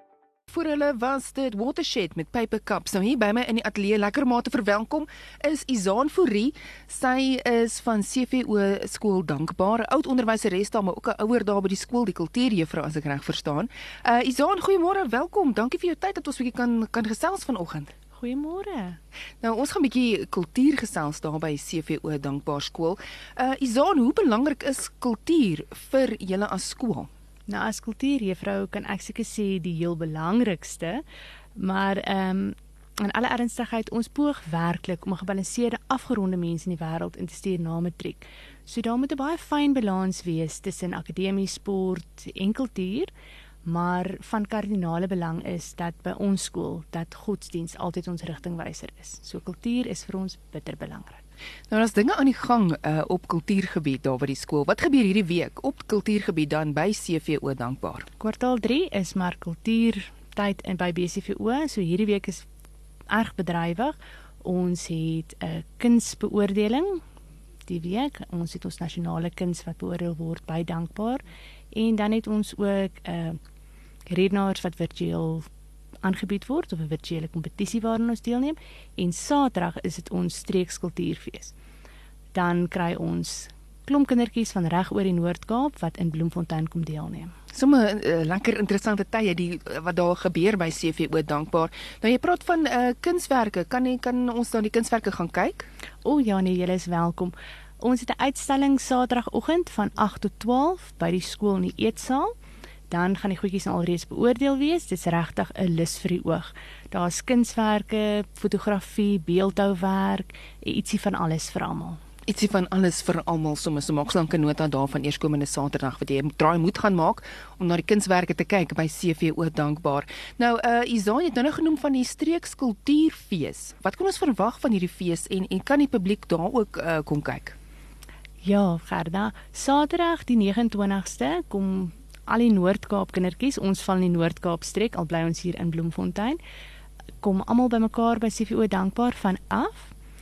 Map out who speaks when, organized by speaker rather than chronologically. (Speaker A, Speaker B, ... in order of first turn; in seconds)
Speaker A: 0.5-17.9, 19.4-27.1, 51.7-58.1, 87.5-95.7, 112.3-127.5
Speaker B: 18.1-19.0, 27.5-31.0, 31.6-43.1, 43.6-51.2, 58.2-62.5, 63.1-67.0, 67.7-73.4, 74.1-75.5, 76.0-81.5, 82.3-87.3, 96.0-102.3, 102.9-112.0, 128.4-136.4, 137.2-139.9